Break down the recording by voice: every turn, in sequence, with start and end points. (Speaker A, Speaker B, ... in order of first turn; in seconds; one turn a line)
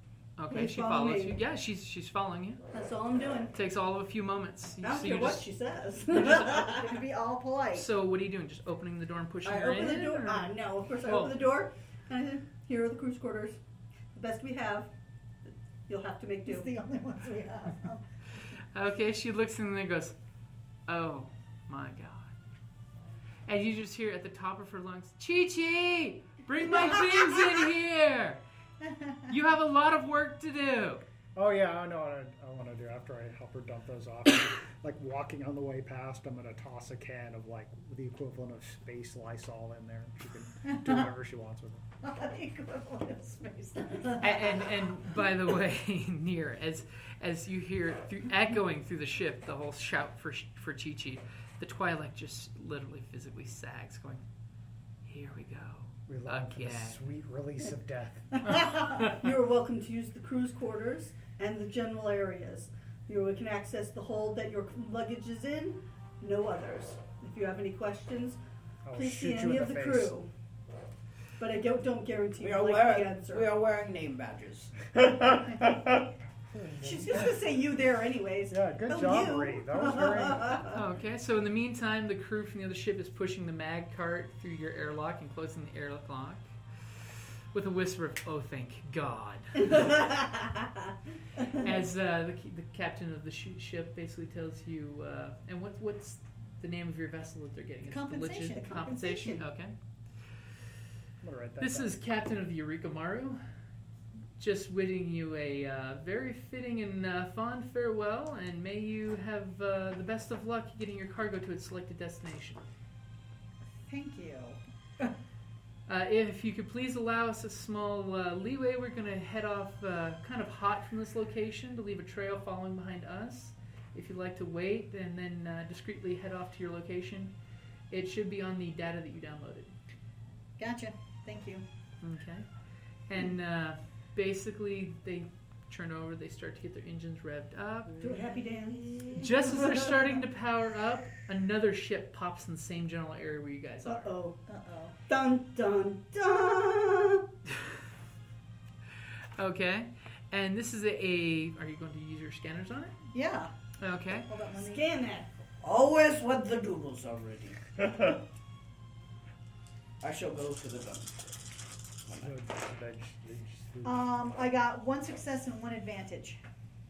Speaker A: 0.4-2.6
Speaker B: 0.5-1.4
Speaker B: 2.7-3.5
Speaker A: 3.5-5.5
Speaker B: 4.8-6.9
Speaker C: 6.3-7.9
Speaker A: 7.7-11.3
Speaker B: 9.4-13.6
Speaker B: 14.1-14.9
Speaker B: 15.9-16.7
Speaker C: 16.5-18.0
Speaker A: 18.7-20.2
Speaker A: 20.9-22.3
Speaker A: 23.5-28.4
Speaker C: 28.8-29.3
Speaker A: 29.3-31.0
Speaker D: 31.4-41.9
Speaker C: 40.7-41.0
Speaker C: 42.0-44.6
Speaker A: 44.2-54.2
Speaker A: 55.1-57.0
Speaker D: 56.1-58.6
Speaker A: 58.5-59.0
Speaker C: 58.6-59.0
Speaker B: 59.0-68.4
Speaker D: 68.8-70.2
Speaker B: 69.0-70.3
Speaker B: 71.4-73.5
Speaker E: 72.4-74.9
Speaker D: 76.5-77.4
Speaker B: 76.8-80.8
Speaker D: 78.5-80.7
Speaker A: 80.7-86.5
Speaker A: 87.5-90.0
Speaker B: 89.8-90.6
Speaker A: 91.5-99.7
Speaker C: 97.9-98.8
Speaker B: 98.6-99.4
Speaker D: 101.2-101.9
Speaker A: 101.6-103.4
Speaker A: 104.4-112.6
Speaker C: 113.8-115.1
Speaker A: 115.9-127.3
Speaker A: 127.9-129.7
Speaker C: 130.6-131.6
Speaker A: 132.0-132.5
Speaker A: 133.1-138.1
Speaker B: 138.0-139.9
Speaker A: 139.1-144.1
Speaker B: 143.8-144.4
Speaker C: 144.5-144.9
Speaker B: 145.1-147.2
Speaker A: 149.4-153.0
Speaker C: 153.1-153.5
Speaker A: 153.8-154.3
Speaker C: 154.3-154.8
Speaker B: 154.5-155.3
Speaker E: 155.6-157.8
Speaker E: 160.0-161.3
Speaker E: 162.1-162.3
Speaker D: 162.2-164.0
Speaker C: 163.8-166.4